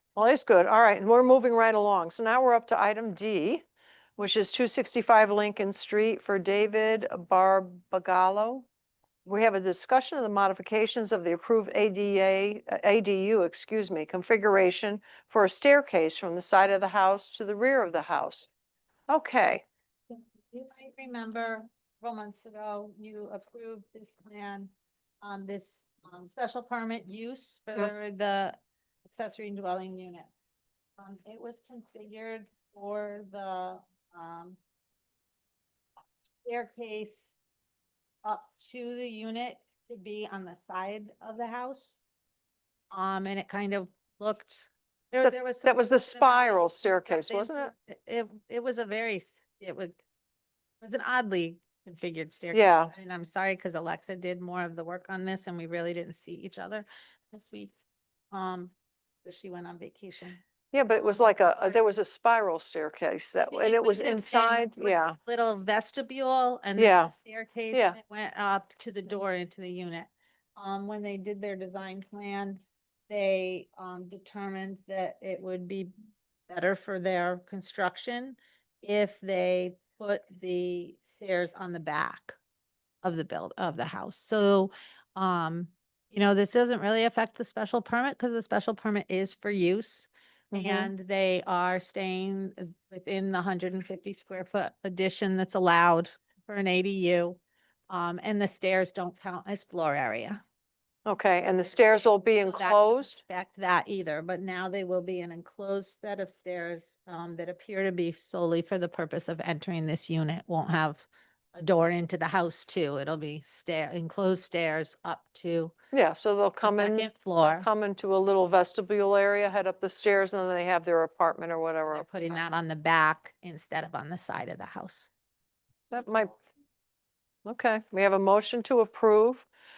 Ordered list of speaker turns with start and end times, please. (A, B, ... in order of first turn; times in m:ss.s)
0:00.2-0:03.6 A
0:04.2-0:08.6 A
0:09.2-0:18.5 A
0:19.1-0:19.6 A
0:20.1-0:30.3 B
0:31.0-0:34.6 B
0:36.4-0:37.3 B
0:38.2-0:42.0 B
0:42.9-0:50.0 B
0:45.2-0:47.7 A
0:50.8-0:57.7 B
0:52.5-0:52.9 A
0:58.3-0:58.7 B
0:59.2-1:00.4 B
1:00.7-1:05.2 A
1:01.0-1:01.8 B
1:03.5-1:15.9 B
1:06.8-1:07.1 A
1:16.5-1:22.4 B
1:23.0-1:37.4 B
1:30.5-1:30.9 A
1:37.9-1:40.4 B
1:41.0-1:43.2 A
1:41.7-1:55.7 B
1:55.9-2:02.4 A
1:56.6-1:57.7 B
2:01.8-2:05.1 B
2:05.9-2:06.3 A
2:07.4-2:09.4 A